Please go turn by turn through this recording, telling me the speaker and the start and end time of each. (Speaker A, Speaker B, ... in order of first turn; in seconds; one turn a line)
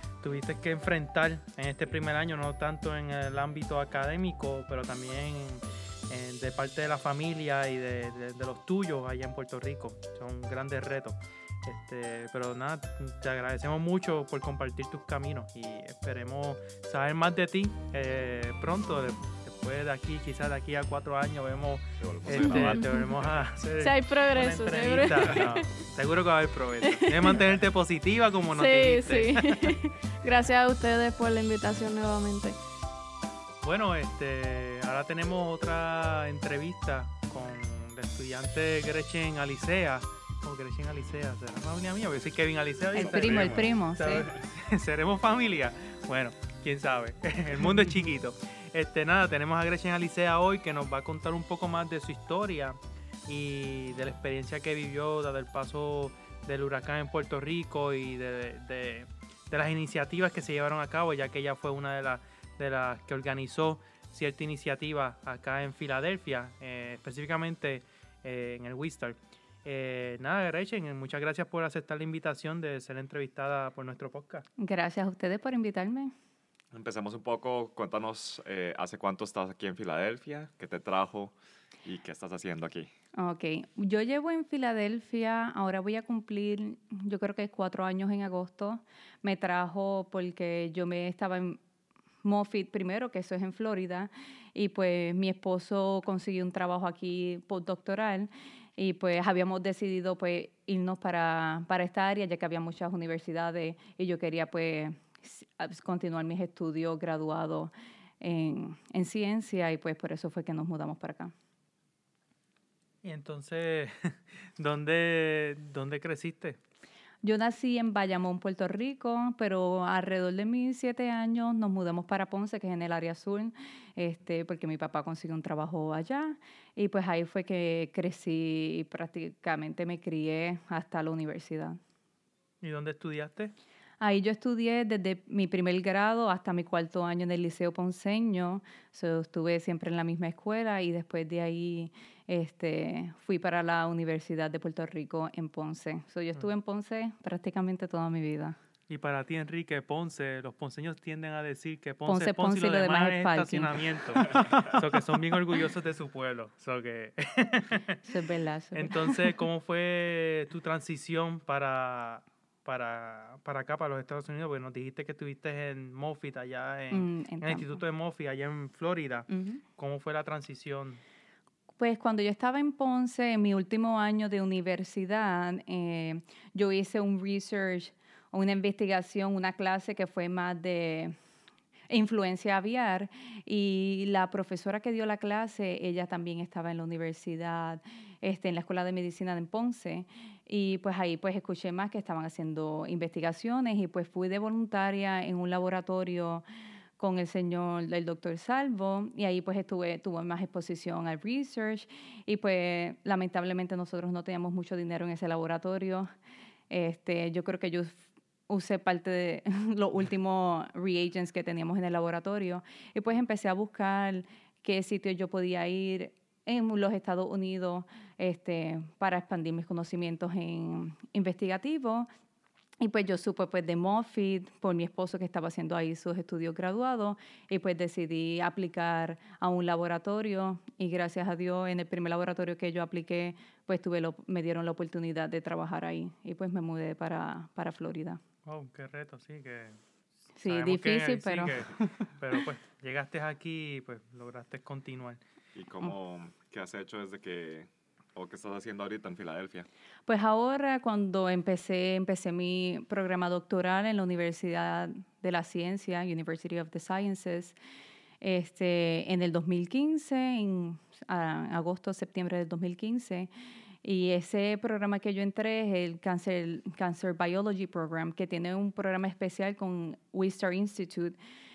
Speaker A: 0.2-29.8
Speaker B: 22.0-23.4
Speaker C: 22.5-23.1
Speaker C: 23.8-25.6
Speaker C: 26.9-27.4
Speaker C: 28.5-32.6
Speaker A: 33.6-74.4
Speaker D: 42.9-44.3
Speaker B: 43.0-43.5
Speaker D: 74.6-76.1
Speaker B: 76.7-81.3
Speaker B: 81.8-82.9
Speaker D: 83.2-91.6
Speaker D: 92.2-111.3
Speaker A: 113.0-116.6
Speaker D: 117.2-131.8
Speaker A: 132.6-133.5
Speaker D: 134.0-148.6
Speaker A: 148.9-158.0
Speaker D: 152.1-153.7
Speaker D: 158.1-159.3
Speaker A: 158.7-171.0
Speaker D: 166.9-167.8
Speaker D: 169.3-169.6
Speaker D: 171.8-181.1
Speaker D: 181.9-196.4
Speaker D: 197.0-206.1
Speaker D: 206.7-222.1
Speaker D: 222.8-238.2
Speaker A: 238.4-239.8
Speaker D: 240.4-241.9
Speaker A: 240.4-245.2
Speaker B: 245.5-249.7
Speaker D: 250.1-257.6
Speaker D: 258.2-263.3
Speaker D: 263.8-271.1